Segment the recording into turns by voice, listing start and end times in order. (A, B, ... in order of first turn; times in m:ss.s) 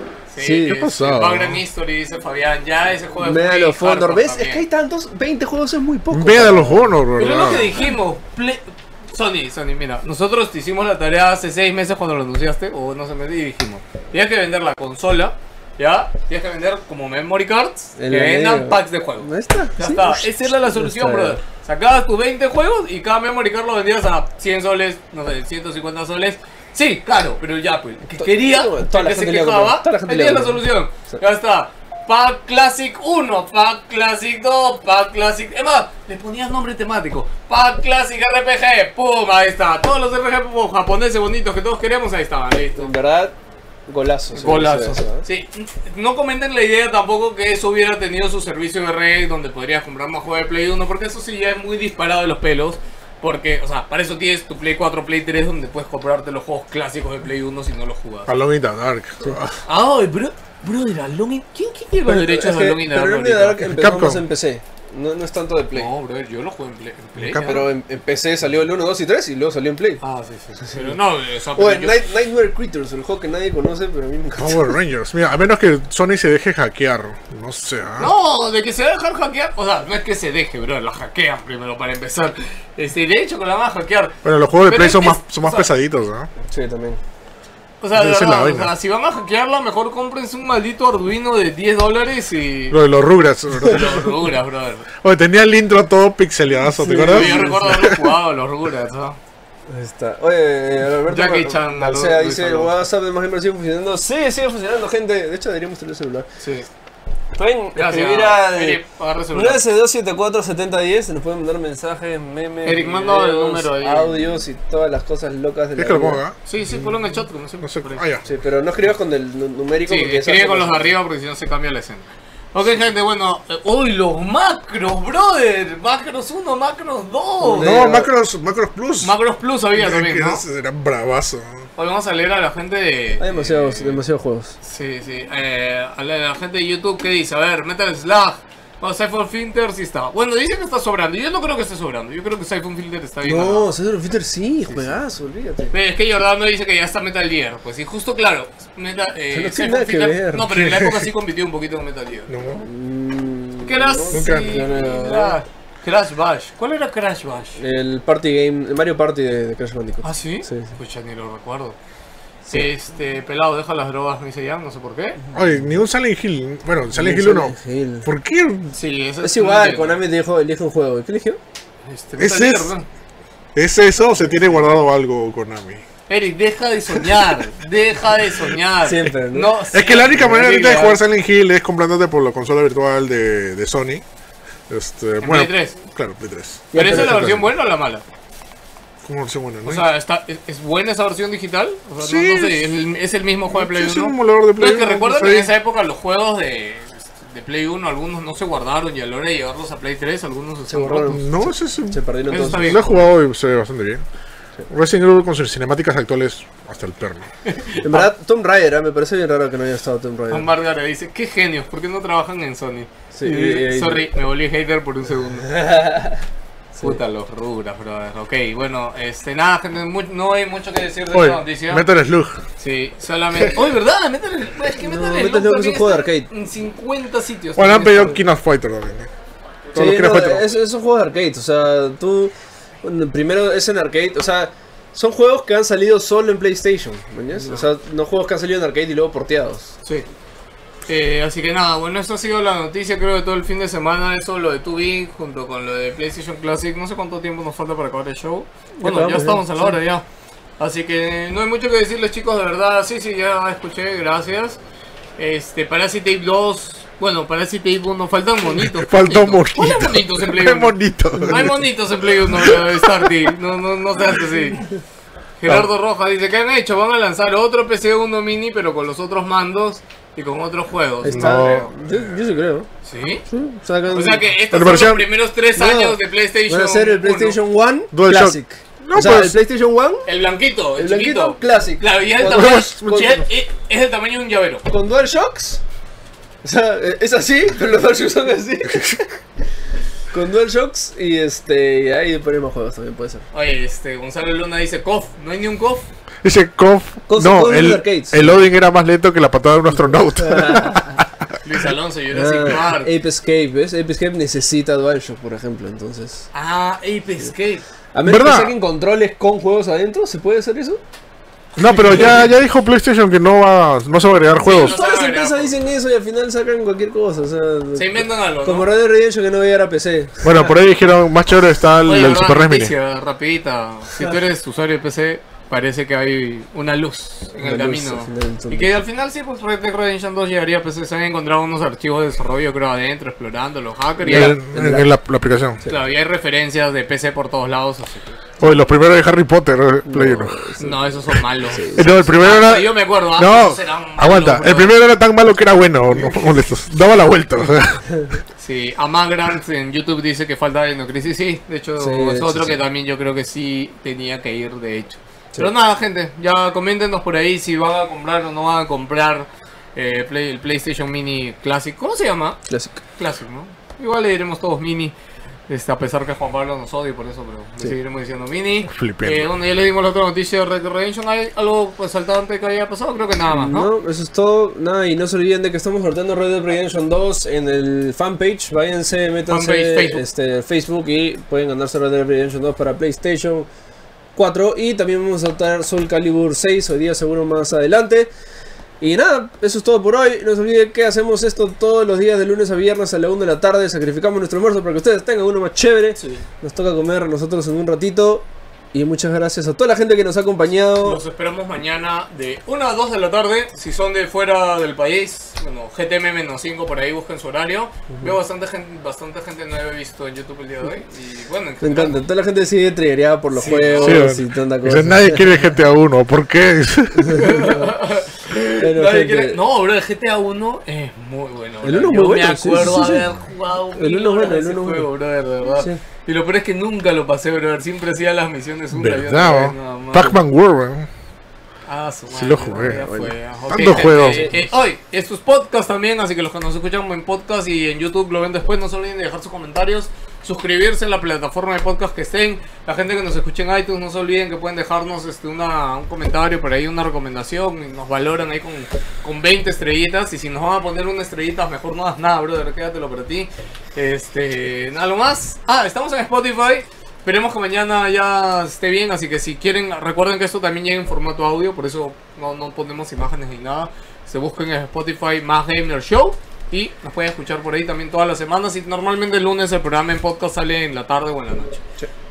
0:00.3-0:04.6 A
0:00.4-0:00.8 B
0:00.7-0:01.6 C
0:03.2-0:06.9 B
0:06.1-0:07.7 C
0:07.2-0:42.9 A
0:18.0-0:21.4 B
0:28.2-0:31.2 B
0:42.8-0:43.3 B
0:43.9-0:45.2 B
0:44.3-0:58.3 A
0:58.3-0:59.6 C
0:59.6-1:03.6 A
1:02.1-1:05.9 B
1:03.6-1:04.2 C
1:05.7-1:07.7 A
1:07.2-1:07.6 C
1:07.4-1:10.0 B
1:10.0-1:12.1 A
1:11.6-1:14.8 B
1:14.4-1:18.1 C
1:18.0-1:25.7 A
1:24.2-1:26.3 C
1:26.4-1:27.0 B
1:27.8-1:32.8 A
1:27.9-1:28.7 C
1:32.7-1:34.0 C
1:33.6-1:34.9 A
1:35.0-1:38.1 C
1:36.6-1:37.6 B
1:37.0-1:39.2 A
1:39.7-1:46.3 B
1:41.1-1:42.7 A
1:46.4-1:46.7 A
1:47.3-1:48.8 B
1:47.7-1:49.6 A
1:49.3-1:56.2 B
1:52.6-1:54.2 A
1:55.8-1:56.4 C
1:56.4-1:58.0 A
1:57.6-1:58.3 C
1:58.2-2:00.9 B
1:59.9-2:07.8 A
2:07.4-2:08.1 B
2:07.6-2:09.1 C
2:09.0-2:10.4 A
2:09.8-2:11.6 C
2:11.8-2:14.0 A
2:13.2-2:14.6 B
2:14.6-2:23.7 A
2:23.2-2:25.7 B
2:24.6-2:25.0 A
2:25.7-2:32.3 A
2:29.3-2:30.5 B
2:30.5-2:31.1 C
2:32.3-2:32.7 C
2:32.6-2:35.4 B
2:33.6-2:37.6 A
2:34.1-2:34.6 C
2:37.6-2:40.7 B
2:40.0-2:41.8 A
2:42.5-2:45.2 A
2:45.3-2:48.7 C
2:46.9-2:48.1 B
2:48.7-2:50.0 A
2:49.2-2:51.4 B
2:51.8-2:52.9 A
2:52.2-2:52.7 C
2:53.5-2:55.8 C
2:56.1-3:01.0 A
2:58.8-2:59.5 B
2:59.7-3:04.0 C
3:04.7-3:07.4 C
3:05.2-3:05.8 A
3:06.7-3:07.4 B
3:06.7-3:08.0 A
3:09.0-3:09.8 C
3:09.6-3:21.2 A
3:12.0-3:12.6 C
3:13.5-3:15.5 C
3:20.7-3:22.8 B
3:21.1-3:24.0 C
3:22.3-3:23.1 A
3:24.7-3:27.3 C
3:27.4-3:28.1 A
3:27.8-3:30.5 B
3:30.3-3:35.5 A
3:33.1-3:34.0 B
3:35.5-3:36.2 B
3:36.8-3:41.8 A
3:41.1-3:42.4 C
3:42.6-3:48.2 A
3:44.7-3:46.3 B
3:47.6-3:49.1 C
3:49.7-3:50.5 C
3:49.7-3:59.7 B
3:57.3-3:57.7 A
4:00.9-4:10.0 A
4:08.8-4:09.8 B
4:10.6-4:14.6 A
4:15.2-4:24.6 A
4:18.6-4:21.6 C
4:22.2-4:23.1 C
4:25.4-4:31.7 A
4:31.0-4:32.7 B
4:31.1-4:32.2 C
4:32.8-4:33.2 A
4:33.3-4:34.3 B
4:33.9-4:37.4 A
4:34.5-4:35.1 C
4:35.6-4:36.0 B
4:36.5-4:40.1 B
4:37.9-4:39.3 C
4:40.0-4:44.6 A
4:40.8-4:43.1 B
4:42.2-4:43.2 C
4:44.7-4:45.6 B
4:46.4-4:49.2 B
4:48.7-4:48.9 C
4:50.1-4:53.2 B
4:53.3-4:55.9 A
4:56.2-5:01.3 C
4:57.1-4:58.4 B
4:59.9-5:00.9 B
5:01.4-5:02.9 A
5:02.1-5:06.3 B
5:06.3-5:07.6 A
5:07.9-5:10.8 B
5:08.0-5:08.5 C
5:11.6-5:12.3 A
5:11.6-5:14.8 C
5:14.4-5:15.5 A
5:14.5-5:20.3 B
5:17.7-5:18.7 A
5:20.2-5:22.7 C
5:21.8-5:34.4 A
5:27.3-5:28.7 B
5:34.0-5:34.9 B
5:34.1-5:35.6 C
5:35.6-5:38.3 A
5:38.4-5:40.5 C
5:39.8-5:40.8 B
5:40.6-5:44.8 A
5:41.5-5:41.8 B
5:41.7-5:47.9 C
5:45.9-5:46.2 A
5:48.4-6:02.4 A
5:51.8-5:52.6 B
6:02.5-6:02.8 B
6:03.0-6:04.9 A
6:05.5-6:13.7 A
6:08.7-6:09.3 C
6:13.3-6:23.5 B
6:19.3-6:20.0 A
6:24.1-6:28.1 B
6:28.8-6:41.0 B
6:36.0-6:36.2 A
6:40.8-6:52.0 A
6:51.6-6:55.3 B
6:53.3-6:54.1 A
6:53.8-6:57.4 C
6:57.0-6:57.7 B
6:57.1-7:10.2 A
6:58.6-6:59.4 B
7:01.6-7:03.0 B
7:03.8-7:04.9 B
7:08.7-7:10.9 C
7:11.7-7:51.6 A
7:12.1-7:12.8 C
7:12.6-7:13.1 B
7:13.5-7:14.4 C
7:13.9-7:14.3 B